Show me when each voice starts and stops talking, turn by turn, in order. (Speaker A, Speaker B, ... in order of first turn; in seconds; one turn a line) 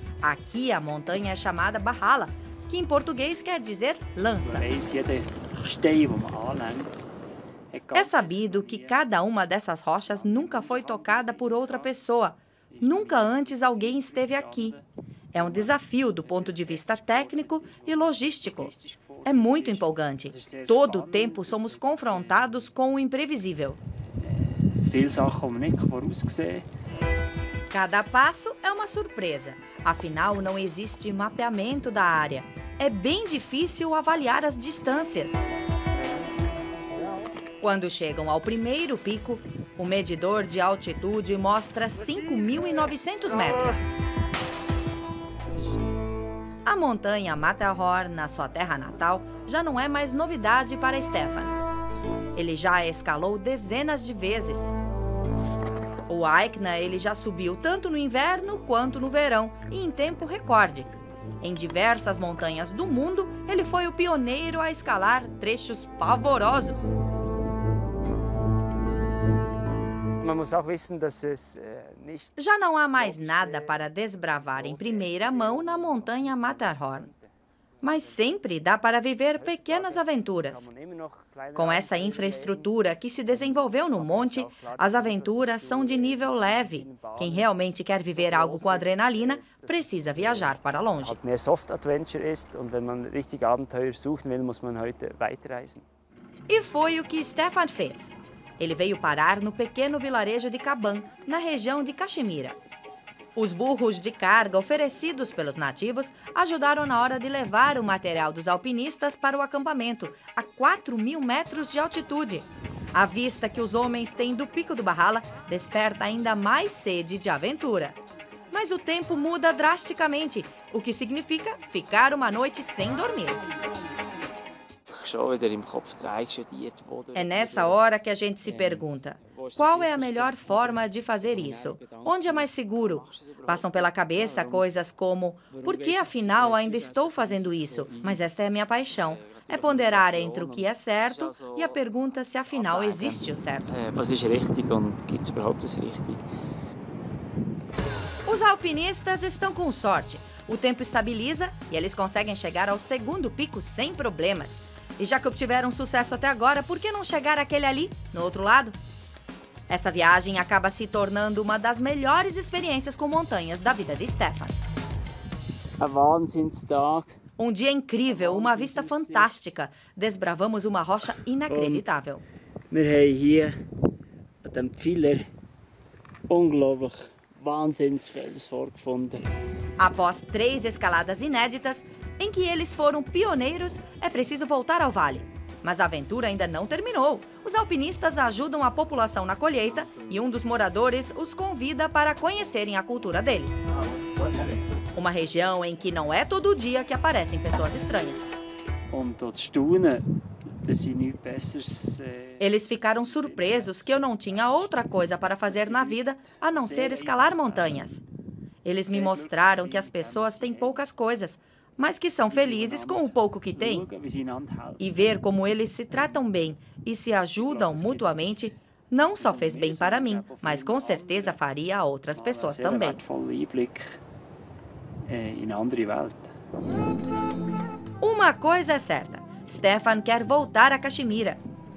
Speaker A: 0.2-4.7
Speaker B: 4.4-7.0
Speaker B: 7.7-9.0
Speaker A: 7.9-14.7
Speaker B: 10.0-11.9
Speaker B: 12.7-22.5
Speaker A: 15.3-18.7
Speaker A: 19.2-23.8
Speaker B: 24.2-26.7
Speaker A: 27.7-35.4
Speaker A: 37.6-43.8
Speaker B: 42.1-43.9
Speaker A: 46.6-51.5
Speaker A: 52.3-54.7
Speaker A: 56.1-60.9
Speaker A: 61.4-66.9
Speaker B: 70.2-72.4
Speaker A: 72.3-77.1
Speaker B: 72.9-73.8
Speaker B: 74.4-78.3
Speaker A: 77.8-80.7
Speaker B: 79.3-82.7
Speaker A: 81.5-91.2
Speaker B: 83.3-95.8
Speaker A: 96.5-102.5
Speaker A: 103.3-118.0
Speaker A: 118.5-123.4
Speaker B: 124.8-127.8
Speaker A: 127.1-143.7
Speaker B: 128.4-134.7
Speaker B: 135.5-138.2
Speaker B: 139.1-141.8
Speaker B: 142.4-146.3
Speaker A: 148.2-158.8
Speaker A: 159.7-164.6
Speaker B: 165.8-167.2
Speaker A: 167.4-172.2
Speaker B: 168.0-169.3
Speaker B: 171.5-171.9
Speaker B: 172.7-173.6
Speaker B: 174.4-175.3
Speaker B: 176.3-179.3
Speaker A: 179.8-193.6
Speaker B: 194.0-194.7
Speaker A: 194.9-198.3
Speaker B: 198.9-200.1
Speaker B: 200.6-204.8
Speaker A: 202.4-208.0
Speaker B: 205.4-207.9
Speaker A: 208.6-213.9
Speaker B: 208.8-210.8
Speaker B: 212.2-215.1
Speaker A: 214.8-223.0
Speaker B: 217.4-218.4
Speaker B: 219.2-221.4
Speaker B: 222.1-224.0
Speaker B: 225.1-226.3
Speaker A: 228.0-231.4